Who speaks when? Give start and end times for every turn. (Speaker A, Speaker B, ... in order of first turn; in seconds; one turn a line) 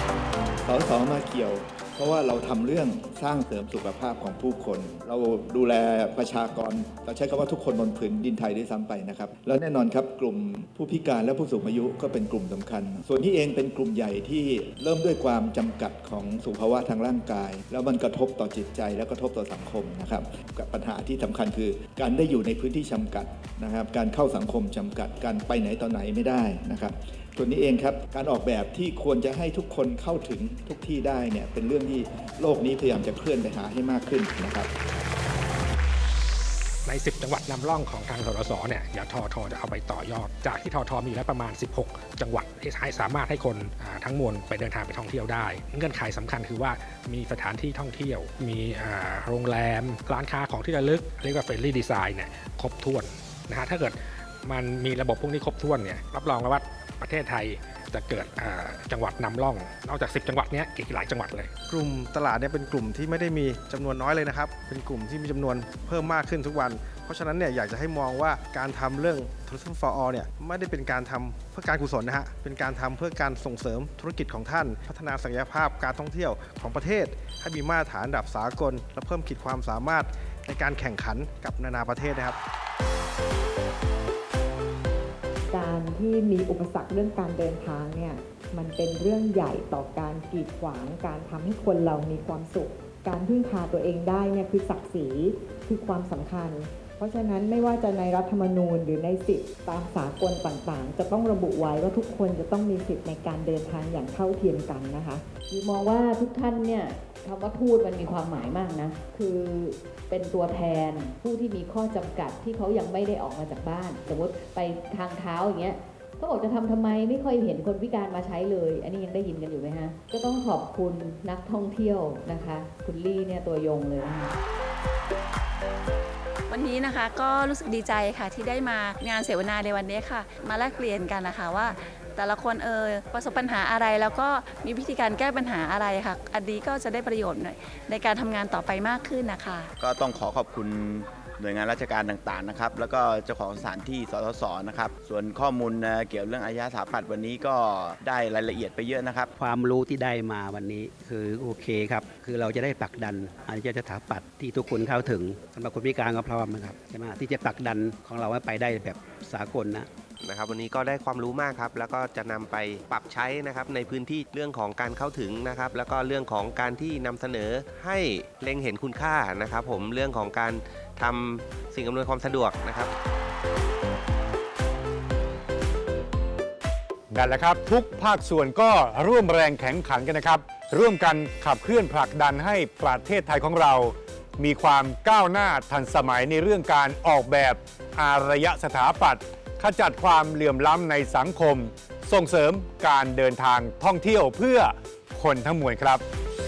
Speaker A: 0.6-34.7
Speaker B: 36.9-61.5
Speaker C: 61.7-82.4
Speaker D: 85.5-105.2
Speaker E: 105.5-124.3
Speaker F: 126.5-139.7
Speaker G: 139.8-149.3
Speaker H: 149.4-159.9
Speaker I: 160.2-172.9
Speaker J: 177.1-196.0